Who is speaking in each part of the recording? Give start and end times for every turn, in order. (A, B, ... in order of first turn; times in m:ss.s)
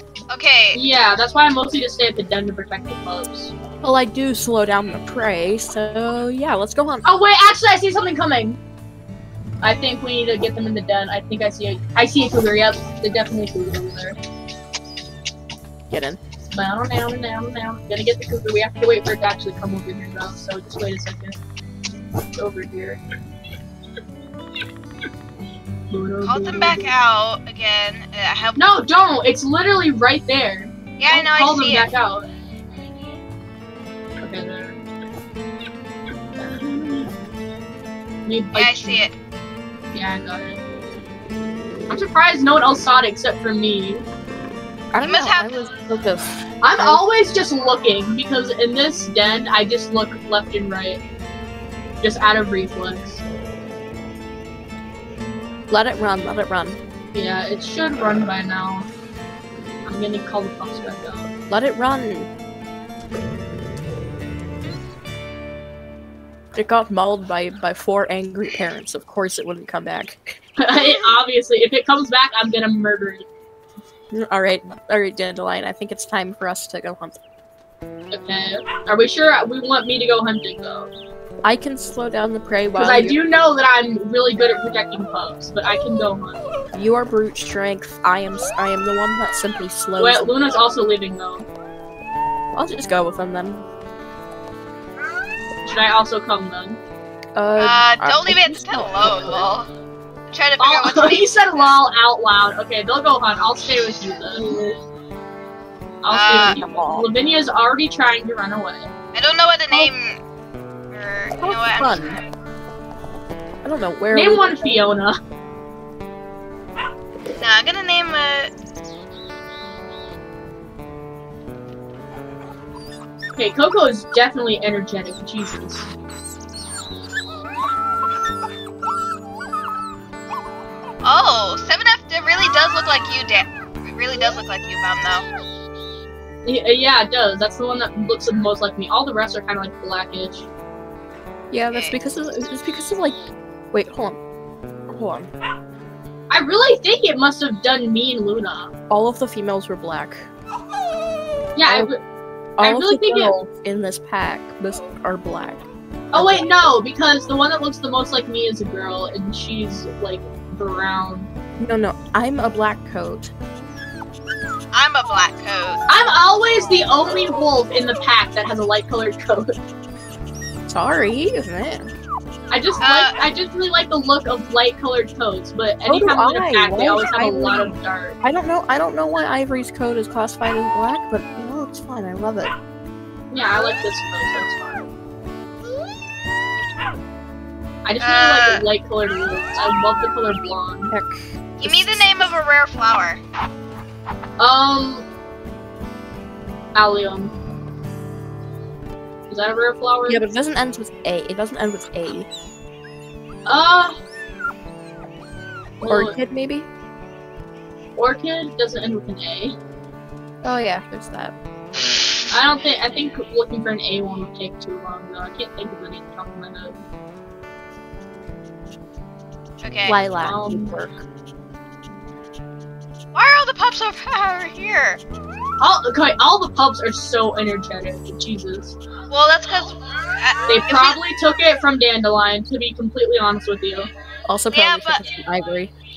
0:00.3-0:00.8 A
0:00.7-0:03.5 B
0:03.8-0:07.1 C
0:07.0-0:08.6 B
0:09.6-0:14.2 B
0:15.9-0:16.2 C
0:16.5-0:21.4 B
0:22.3-0:23.0 B
0:25.9-0:26.8 B
0:26.2-0:28.8 A
0:28.6-0:32.3 B
0:31.0-0:31.9 A
0:34.2-0:34.8 B
0:36.4-0:37.1 B
0:38.2-0:39.0 B
0:38.5-0:39.1 A
0:39.9-0:40.6 B
0:41.9-0:44.0 B
0:44.9-0:47.0 C
0:45.0-0:45.7 A
0:46.6-0:51.0 B
0:52.0-0:53.2 B
0:55.7-0:56.8 C
0:57.1-0:58.9 B
0:59.8-1:01.3 B
1:01.5-1:02.3 C
1:06.5-1:10.4 C
1:10.6-1:13.3 B
1:14.1-1:17.2 C
1:18.1-1:20.9 B
1:21.4-1:23.2 C
1:22.8-1:26.4 B
1:26.7-1:30.6 C
1:30.0-1:31.4 B
1:32.5-1:33.6 C
1:35.6-1:36.8 B
1:37.4-1:39.5 C
1:37.6-1:39.7 A
1:40.3-1:41.8 A
1:40.6-1:44.5 B
1:44.4-1:44.7 C
1:46.0-1:48.9 B
1:46.1-1:46.6 A
1:46.4-1:47.1 C
1:49.1-1:50.2 A
1:50.9-1:52.1 A
1:51.4-1:52.2 C
1:53.6-1:54.8 C
1:54.1-1:55.2 B
1:57.4-1:58.5 A
2:03.4-2:05.9 B
2:11.0-2:15.2 A
2:16.4-2:20.5 B
2:21.5-2:23.2 C
2:21.7-2:22.0 A
2:23.7-2:24.2 C
2:24.9-2:25.3 C
2:26.3-2:28.7 B
2:28.9-2:30.3 C
2:31.6-2:32.0 B
2:32.6-2:36.5 C
2:32.6-2:33.4 B
2:36.1-2:41.3 B
2:41.6-2:43.3 C
2:44.7-2:45.8 A
2:45.9-2:49.5 B
2:50.7-2:51.9 C
2:52.5-2:58.2 B
2:52.8-2:53.1 A
2:55.8-3:02.5 C
3:03.3-3:04.8 B
3:07.8-3:10.9 B
3:08.0-3:08.6 A
3:10.9-3:12.3 C
3:11.6-3:13.2 A
3:14.4-3:15.0 B
3:16.7-3:17.3 B
3:19.3-3:20.2 B
3:20.1-3:22.3 C
3:23.4-3:24.0 B
3:25.8-3:26.2 B
3:25.9-3:26.7 C
3:28.0-3:29.6 B
3:30.4-3:31.3 C
3:32.3-3:36.8 B
3:39.6-3:40.0 A
3:39.9-3:41.0 C
3:40.2-3:40.8 B
3:43.1-3:45.0 A
3:45.6-3:48.8 B
3:49.1-3:51.0 A
3:50.5-3:53.9 B
3:54.3-3:55.7 C
3:54.5-3:55.1 A